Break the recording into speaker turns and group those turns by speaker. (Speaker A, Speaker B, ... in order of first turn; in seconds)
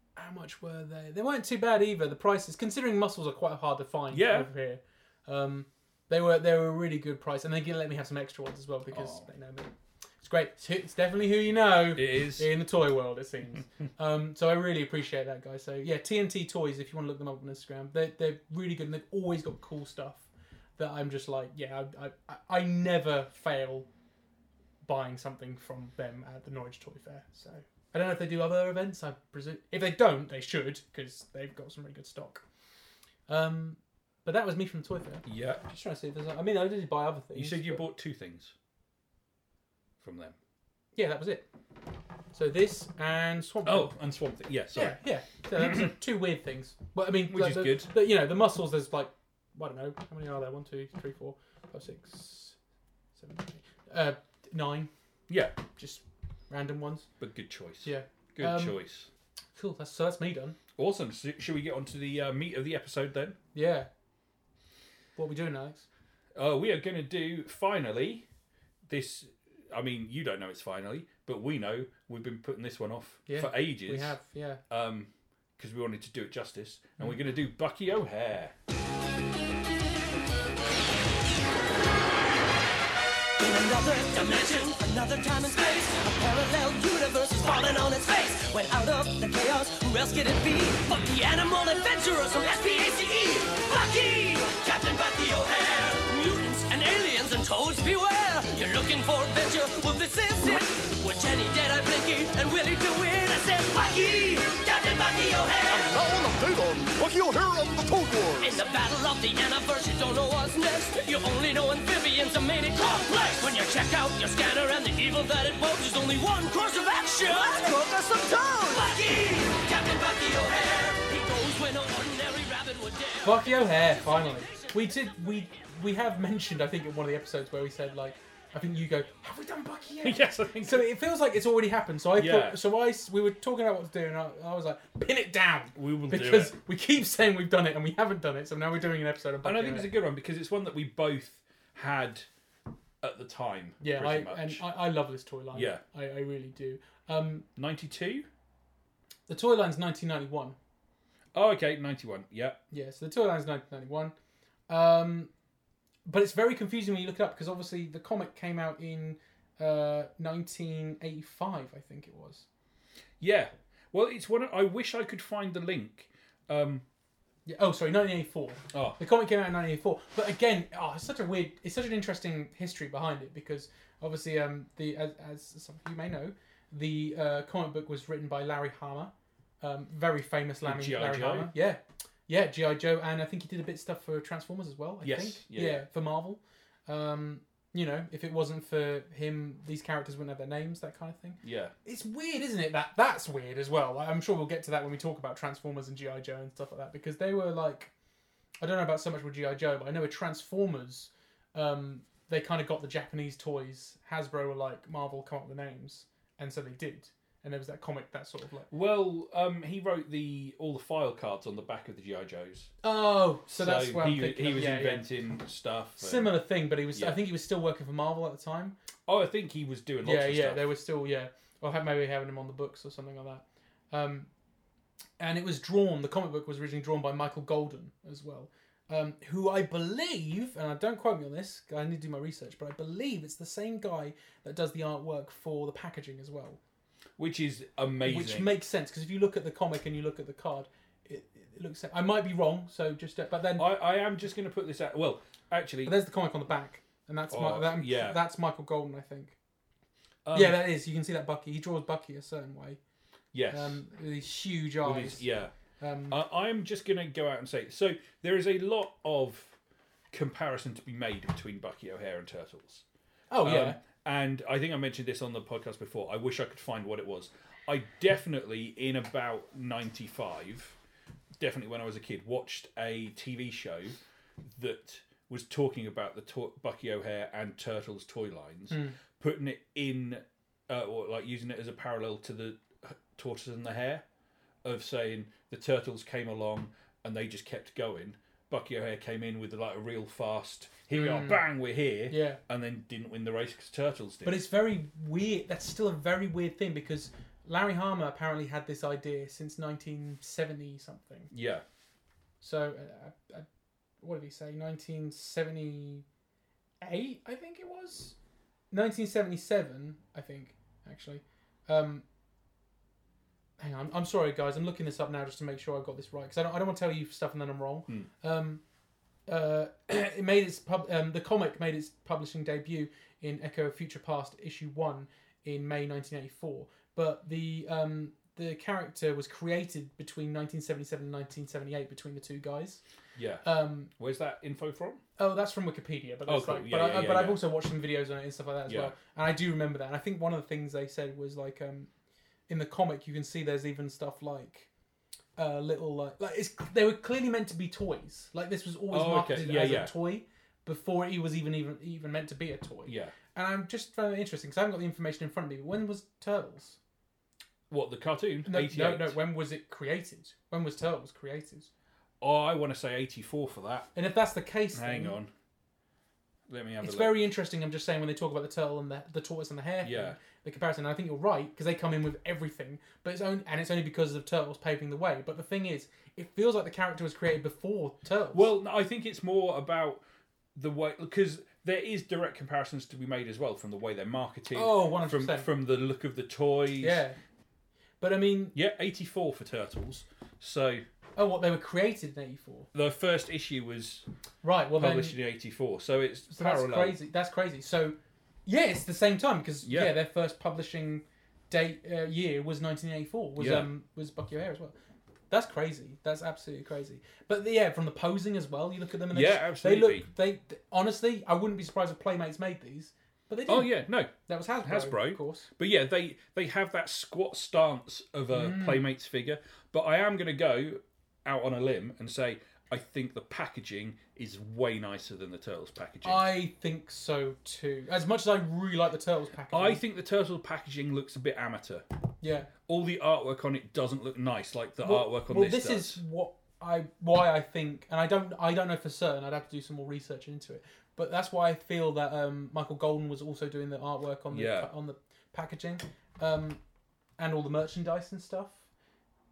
Speaker A: 0.2-23.9, 24.8-32.4, 33.3-37.9, 41.0-41.5, 42.3-44.0, 44.7-52.6, 53.2-54.9, 55.7-57.1, 57.8-58.8, 59.5-60.6, 63.5-63.9, 65.2-65.9, 73.3-74.6, 123.2-139.9, 143.8-147.5, 149.3-150.6, 152.7-154.2, 154.7-155.3, 156.1-162.4, 167.5-197.9, 198.6-208.7, 212.8-215.1, 216.0-218.8, 220.0-224.3, 225.2-236.6, 238.1-243.7, 245.8-249.4, 250.3-252.8, 253.5-255.2, 255.8-256.2, 263.3-263.8, 278.7-279.0, 290.9-291.4, 292.1-292.4, 294.2-301.3, 302.4-303.5, 304.0-306.1, 306.8-308.1, 308.7-312.1, 313.6-318.6, 319.3-332.8, 333.4-333.9, 335.2-341.9, 342.5-344.7, 345.4-356.8, 358.5-361.7, 363.9-365.2, 366.8-378.5, 384.5-385.5, 386.8-387.2, 388.0-388.6, 391.2-392.7, 394.4-395.2, 396.3-404.7, 405.3-415.5, 418.3-418.8, 426.0-429.8, 432.2-432.5, 434.8-446.6, 447.2-448.6
Speaker B: 4.1-4.5, 8.9-9.2, 11.9-12.5, 35.3-35.6, 37.4-38.5, 40.0-40.4, 43.6-45.0, 45.6-45.9, 47.3-47.9, 55.3-55.6, 57.2-59.1, 60.8-63.4, 66.3-68.2, 68.9-74.2, 74.7-78.5, 130.0-130.9, 132.2-132.6, 135.8-136.6, 139.4-142.3, 143.0-144.6, 145.5-145.8, 147.6-148.3, 151.3-152.6, 163.2-166.8, 168.7-169.0, 180.6-181.5, 185.0-185.8, 191.4-191.7, 208.7-212.7, 213.5-216.3, 216.9-217.2, 219.1-220.7, 237.2-238.5, 243.6-245.9, 247.3-248.2, 250.2-250.7, 253.3-253.8, 254.8-255.5, 256.1-259.6, 260.1-262.8, 263.4-270.8, 271.4-284.0, 284.6-294.4, 301.3-301.6, 333.2-335.0, 336.3-337.4, 338.7-338.9, 348.9-349.9, 352.9-353.1, 357.7-359.2, 362.2-363.9, 364.7-365.3, 366.5-367.2, 369.8-370.2, 378.3-380.0, 380.6-387.0, 388.5-390.8, 392.7-394.1, 394.8-397.0, 399.6-400.0, 403.4-403.7, 409.1-410.1, 413.5-426.3, 429.5-431.9, 432.7-436.0, 444.3-444.7
Speaker C: 83.4-106.0, 108.4-123.4
Speaker D: 105.7-108.6, 117.5-118.8